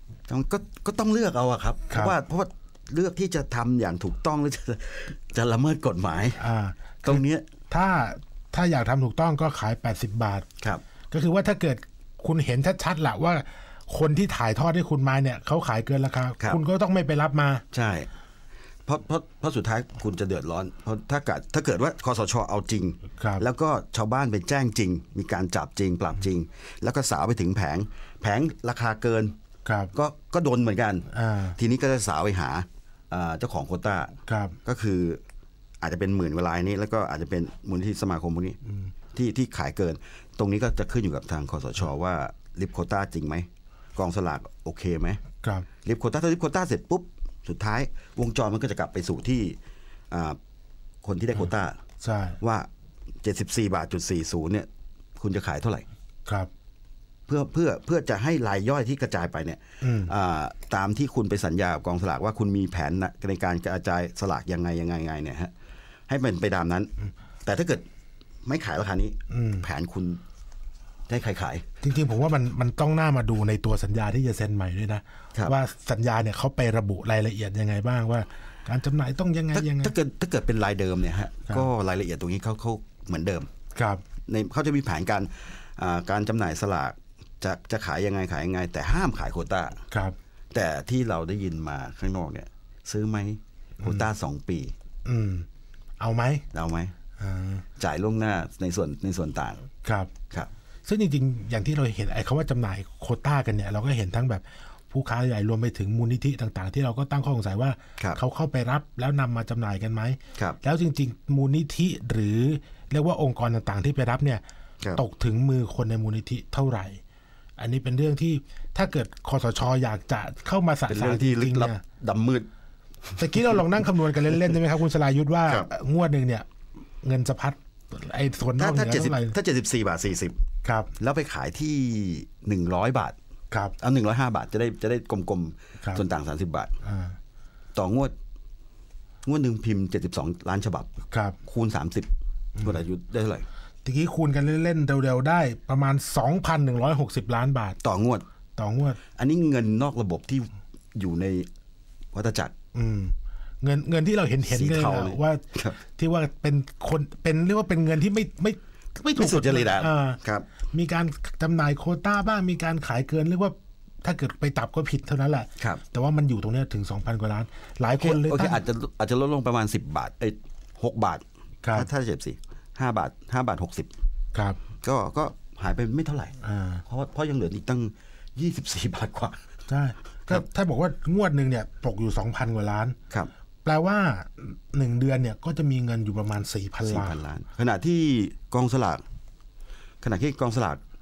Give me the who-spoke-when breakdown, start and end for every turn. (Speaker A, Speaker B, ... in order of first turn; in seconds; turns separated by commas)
Speaker A: 0.3-6.4, Speaker B: 6.4-10.4, Speaker A: 7.0-7.5, Speaker B: 11.1-17.6, Speaker A: 17.7-18.1, Speaker A: 18.9-29.4, Speaker B: 23.2-23.4, Speaker B: 29.6-29.9, Speaker A: 29.9-35.2, Speaker B: 31.1-31.6, Speaker B: 34.3-34.5, Speaker A: 35.8-38.6, Speaker A: 39.1-45.2, Speaker A: 45.8-49.6, Speaker A: 50.1-50.4, Speaker A: 51.0-51.8, Speaker B: 52.0-52.4, Speaker A: 52.4-52.7, Speaker A: 53.2-55.9, Speaker A: 57.3-65.5, Speaker B: 59.8-60.1, Speaker A: 66.1-66.9, Speaker A: 67.4-67.9, Speaker A: 68.4-70.2, Speaker B: 69.3-69.6, Speaker A: 71.1-71.6, Speaker B: 71.8-79.9, Speaker A: 79.5-83.5, Speaker B: 83.8-84.0, Speaker A: 84.3-89.8, Speaker A: 90.5-94.7, Speaker B: 93.8-94.0, Speaker B: 95.0-95.5, Speaker B: 96.0-96.4, Speaker A: 96.5-96.9, Speaker B: 97.2-97.6, Speaker A: 97.8-99.6, Speaker B: 99.8-100.1, Speaker B: 100.8-114.4, Speaker B: 115.0-117.0, Speaker B: 117.6-121.8, Speaker A: 120.9-122.5, Speaker B: 123.2-126.5, Speaker B: 127.0-129.3, Speaker A: 128.6-130.4, Speaker B: 130.6-130.9, Speaker A: 131.0-133.2, Speaker A: 133.8-136.7, Speaker B: 136.8-137.2, Speaker A: 137.7-138.1, Speaker A: 139.2-142.1, Speaker B: 141.1-141.3, Speaker A: 142.6-143.4, Speaker B: 143.8-147.8, Speaker A: 147.8-148.2, Speaker B: 148.6-149.0, Speaker A: 149.1-151.5, Speaker A: 152.1-152.5, Speaker B: 152.7-155.4, Speaker A: 154.4-155.8, Speaker B: 155.9-168.6, Speaker A: 159.2-160.5, Speaker A: 168.0-173.9, Speaker A: 174.8-179.5, Speaker B: 176.4-176.8, Speaker B: 179.7-182.9, Speaker B: 183.6-187.2, Speaker A: 186.8-189.0, Speaker A: 190.0-190.8